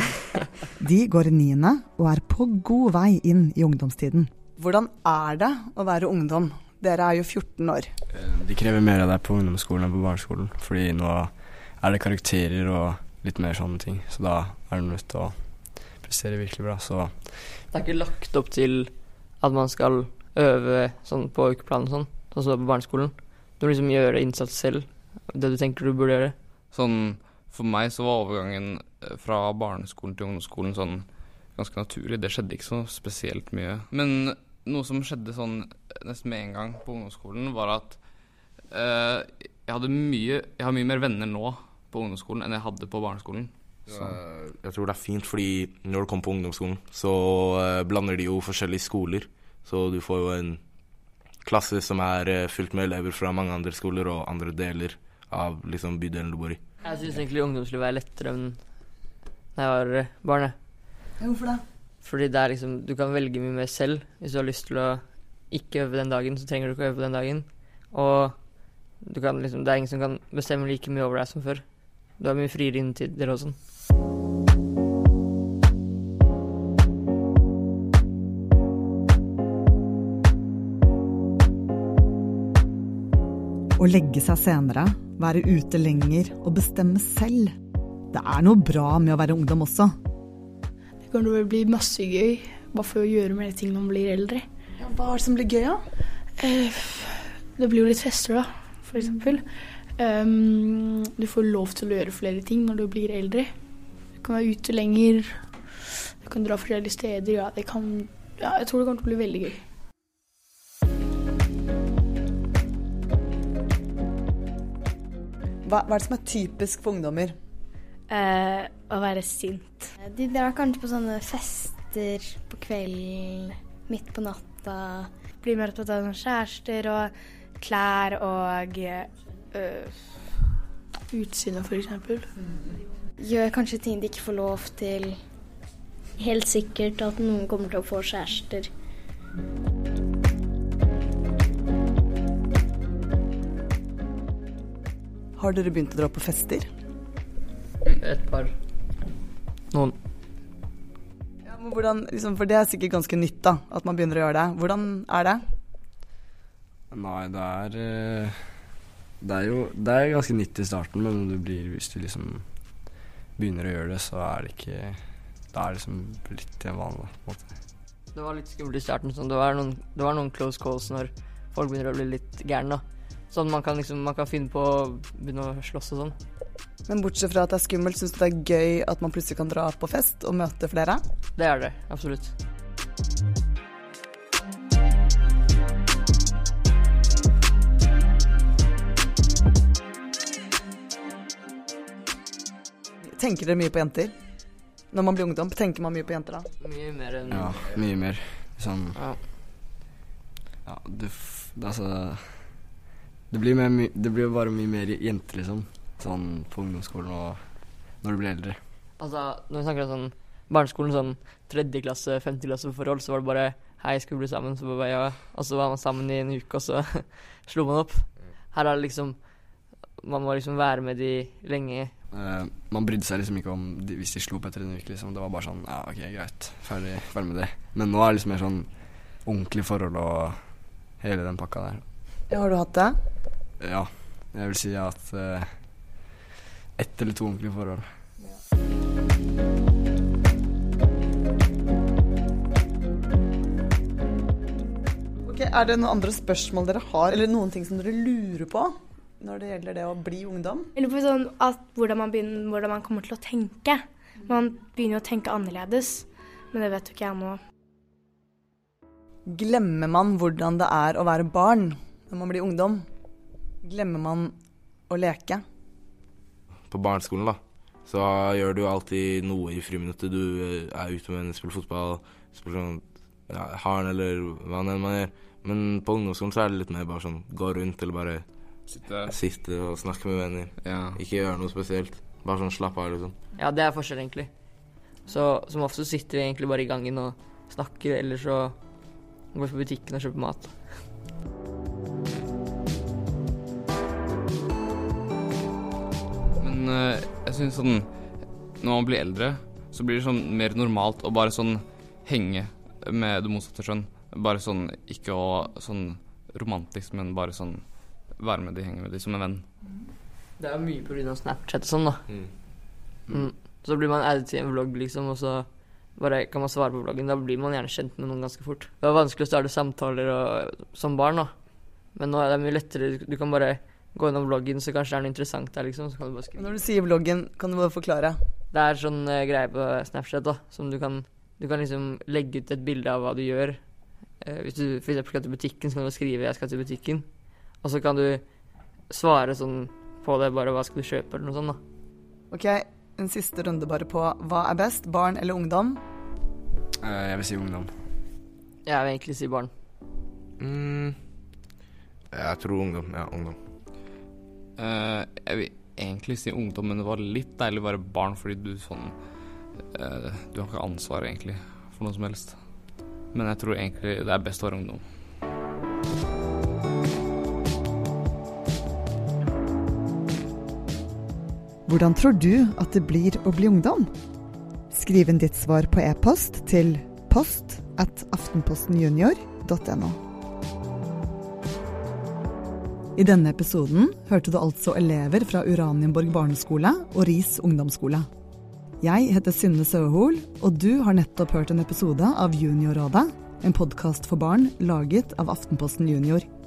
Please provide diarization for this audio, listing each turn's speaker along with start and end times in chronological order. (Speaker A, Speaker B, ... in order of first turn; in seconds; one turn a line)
Speaker A: 0.8-7.9
Speaker B: 8.1-17.4
Speaker C: 17.7-26.4
Speaker D: 26.7-44.1
Speaker E: 43.9-56.6
Speaker C: 56.8-58.8
Speaker C: 59.5-60.5
Speaker A: 61.2-61.6
Speaker C: 62.0-73.5
Speaker A: 83.8-87.5
Speaker A: 88.1-89.9
Speaker F: 91.0-94.5
Speaker A: 94.8-95.8
Speaker F: 96.4-103.5
Speaker F: 104.2-109.6
Speaker A: 115.6-117.3
Speaker G: 118.1-119.9
Speaker H: 120.0-125.1
Speaker G: 125.4-129.9
Speaker F: 131.1-132.3
Speaker H: 133.2-135.2
Speaker H: 136.2-138.7
Speaker A: 145.4-146.7
Speaker C: 147.9-148.5
Speaker C: 149.7-149.9
Speaker A: 151.4-155.4
Speaker B: 156.9-167.6
Speaker C: 168.1-176.2
Speaker A: 176.9-181.0
Speaker C: 181.3-182.3
Speaker A: 193.1-194.1
Speaker A: 194.9-196.5
Speaker C: 196.6-197.7
Speaker B: 197.3-199.0
Speaker C: 198.9-199.2
Speaker B: 200.6-208.6
Speaker C: 209.0-221.9
Speaker B: 222.1-231.9
Speaker A: 232.3-232.9
Speaker B: 233.6-236.2
Speaker B: 236.8-238.0
Speaker A: 245.2-250.7
Speaker G: 250.8-257.4
Speaker A: 259.3-262.8
Speaker A: 263.6-264.3
Speaker A: 264.9-265.4
Speaker E: 266.7-283.2
Speaker D: 278.7-279.1
Speaker D: 280.6-281.0
Speaker C: 283.4-284.3
Speaker C: 285.0-288.6
Speaker C: 289.2-290.9
Speaker D: 296.4-309.5
Speaker C: 310.4-312.1
Speaker C: 313.1-326.6
Speaker A: 326.4-328.2
Speaker C: 328.5-333.6
Speaker C: 334.2-337.1
Speaker C: 337.6-338.2
Speaker C: 338.9-341.6
Speaker A: 342.3-345.8
Speaker B: 346.8-347.7
Speaker C: 348.6-349.5
Speaker E: 350.4-351.0
Speaker E: 352.1-353.4
Speaker D: 354.6-364.9
Speaker A: 371.7-373.9
Speaker A: 374.7-380.0
Speaker A: 382.9-388.0
Speaker A: 388.8-396.2